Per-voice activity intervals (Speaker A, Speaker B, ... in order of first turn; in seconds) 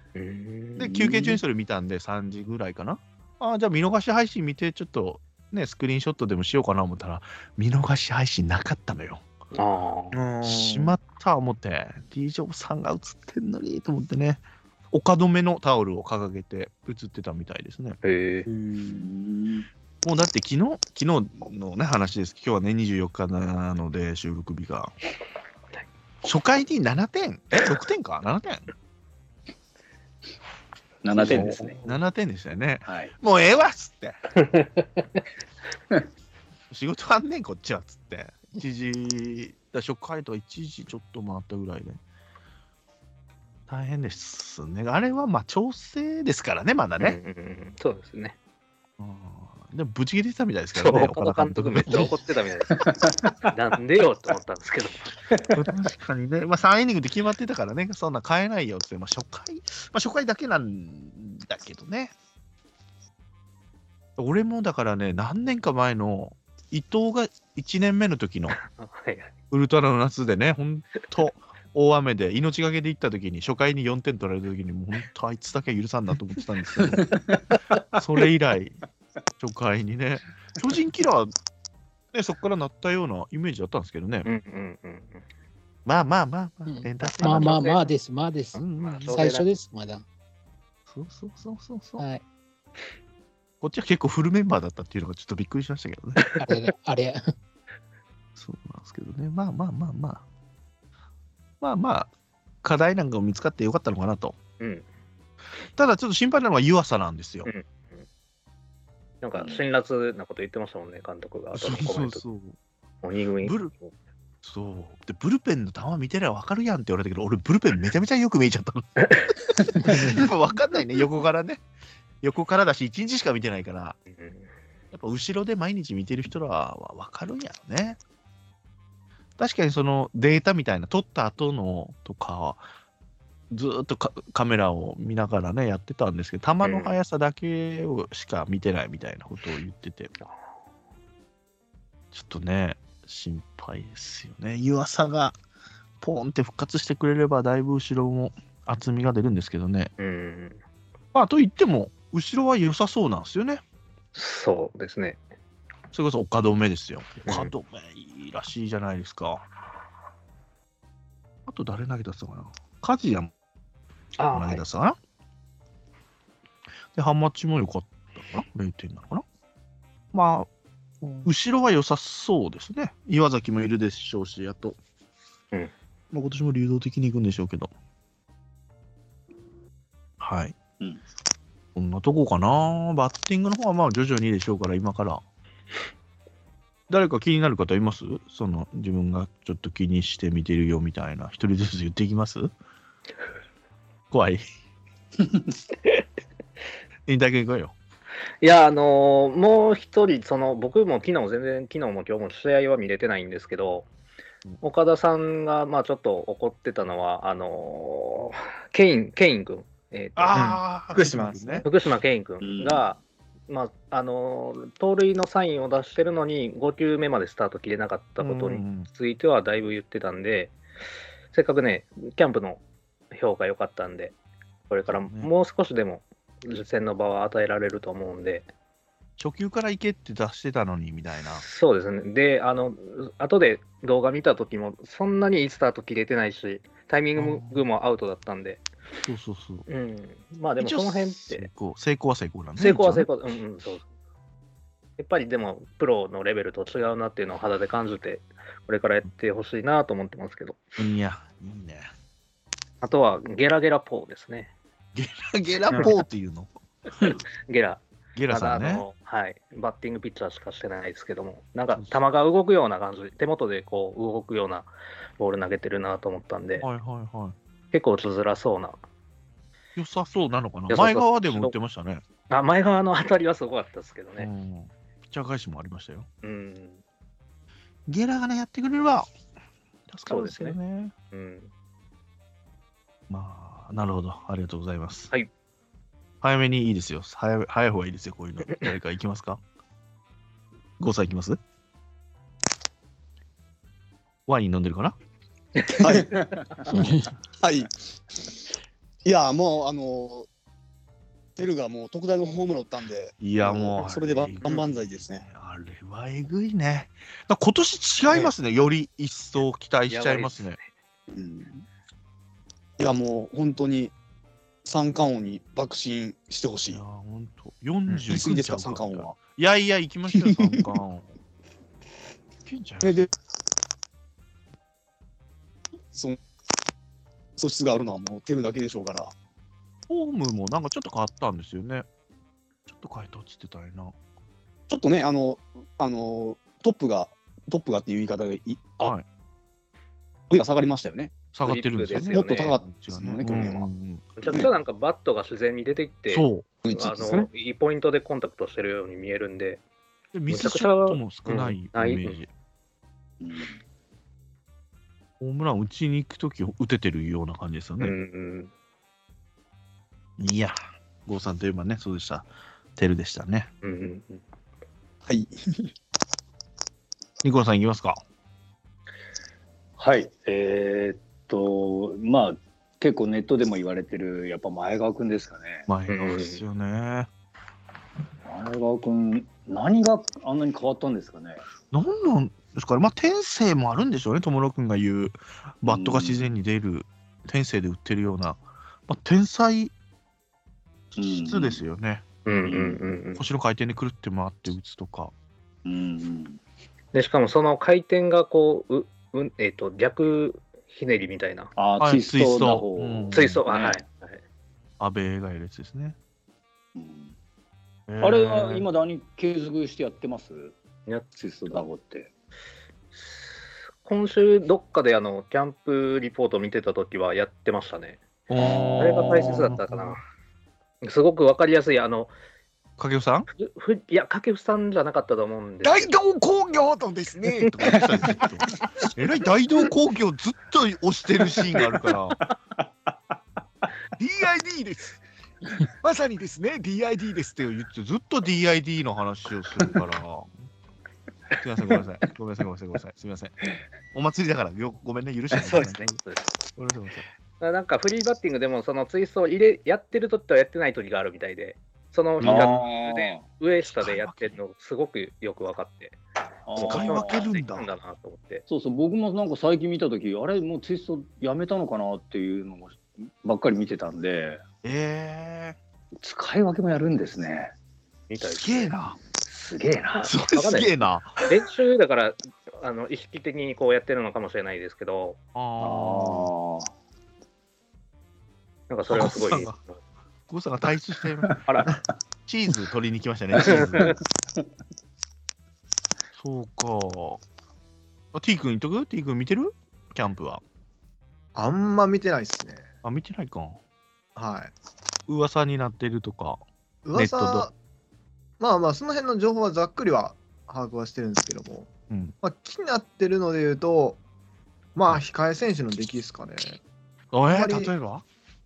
Speaker A: 0.1-0.9, 9.5-10.2, 18.0-18.5, 34.4-35.2, 47.0-48.4, 50.8-52.8, 53.5-55.1, 68.7-69.3, 84.2-85.2, 87.0-87.9, 88.8-89.5, 104.6-104.8, 107.4-108.0, 109.2-112.2, 113.0-113.9, 119.0-119.3, 124.1-124.5, 136.6-137.0, 150.0-150.6, 154.1-155.2, 164.2-164.6, 198.4-203.9, 204.6-210.5, 211.6-220.6, 221.3-224.1, 224.7-228.5, 231.4-238.7, 239.7-241.5, 242.6-243.8, 245.0-250.7, 252.8-254.5, 257.0-266.7, 267.7-268.8, 270.7-271.5, 272.3-274.3, 276.2-276.8, 280.1-280.6, 281.1-281.5, 295.6-296.2, 309.9-310.7, 341.4-342.6, 343.3-343.5, 344.2-349.6, 350.3-352.2, 357.8-358.5, 363.6-364.2, 375.9-376.4, 392.2-393.2, 396.9-401.5, 403.1-404.2, 410.9-411.6, 412.9-418.0, 418.8-420.0, 420.8-422.1, 423.4-425.9, 445.4-446.3, 447.4-456.0, 456.6-458.4, 468.1-468.8, 470.0-475.2, 478.7-479.7, 483.4-483.9
Speaker B: 0.8-9.2, 10.4-18.0, 20.0-24.9, 26.2-28.7, 31.1-34.2, 36.7-42.0, 43.7-47.2, 49.0-52.1, 55.5-62.1, 64.2-68.6, 69.5-77.2, 77.9-78.8, 79.4-81.3, 82.1-84.3, 85.8-87.6, 88.5-89.2, 90.9-92.0, 93.6-96.2, 98.3-100.2, 101.6-102.1, 102.6-104.4, 105.8-107.5, 111.5-112.5, 113.4-113.7, 114.4-121.6, 122.2-124.0, 124.9-128.0, 129.4-132.7, 133.5-140.1, 142.1-145.3, 146.0-149.9, 151.1-153.6, 155.9-159.4, 161.5-163.3, 164.3-165.0, 166.9-169.2, 170.1-170.5, 171.2-174.8, 176.1-177.7, 180.2-180.6, 181.7-185.2, 186.9-192.5, 194.1-194.4, 197.1-197.7, 210.2-211.7, 218.2-218.9, 224.9-225.3, 229.2-231.4, 237.2-237.6, 239.0-239.7, 240.6-243.1, 250.8-251.9, 254.9-257.1, 258.1-258.8, 261.7-262.0, 266.6-267.4, 269.8-272.0, 274.2-276.1, 277.9-279.1, 279.9-280.9, 283.1-285.1, 286.2-289.4, 290.8-291.4, 294.3-294.9, 303.2-310.6, 316.7-321.1, 322.4-323.0, 329.9-331.9, 332.7-333.9, 341.3-344.2, 346.1-346.5, 350.1-352.3, 355.2-357.9, 360.2-363.5, 367.2-368.0, 375.7-377.1, 381.7-389.7, 391.0-392.0, 393.1-395.1, 401.8-403.4, 404.8-406.0, 407.9-408.7, 418.3-420.0, 422.8-423.3, 427.3-432.2, 434.0-435.0, 435.8-440.3, 441.4-443.4, 443.9-446.0, 446.5-447.1, 452.2-452.5, 453.7-454.4, 456.6-457.7, 464.6-465.6, 468.2-469.0, 470.0-471.1, 475.3-476.3, 478.9-479.6, 480.3-481.4, 482.3-483.9, 486.1-487.2, 488.1-490.4, 492.8-493.6, 495.1-496.4, 496.9-497.5, 501.9-502.1, 507.1-508.0
Speaker C: 0.9-1.2, 18.9-19.7, 31.0-31.8, 32.9-33.1, 52.7-53.4, 55.3-55.6, 76.8-77.5, 212.4-212.8, 296.2-296.7, 353.2-353.6, 369.8-375.7, 378.2-381.4, 385.7-386.3, 390.9-391.6, 392.4-392.9, 395.6-396.4, 401.6-403.8, 406.8-407.1, 408.0-410.6, 411.1-412.1, 418.4-419.3, 452.2-453.2, 456.5-457.3, 458.5-464.4, 466.0-467.5, 469.2-470.1, 475.6-476.7, 481.2-481.7, 483.5-484.0
Speaker D: 10.1-10.9, 210.3-211.7, 491.3-492.6, 494.1-494.5, 496.9-497.5, 498.4-504.0, 504.7-506.6, 507.3-507.7
Speaker E: 18.5-18.8, 295.8-296.2, 297.4-297.7, 299.0-300.3, 301.4-305.2, 311.1-311.6, 312.8-313.9, 314.6-316.8, 317.9-319.2, 320.2-320.7, 322.8-323.1, 325.9-326.2, 327.4-329.1, 334.7-338.9, 340.3-341.1, 341.9-343.7, 346.6-347.3, 365.1-365.7, 425.6-427.6
Speaker F: 86.7-90.0, 92.0-92.2, 96.4-97.2, 296.7-297.1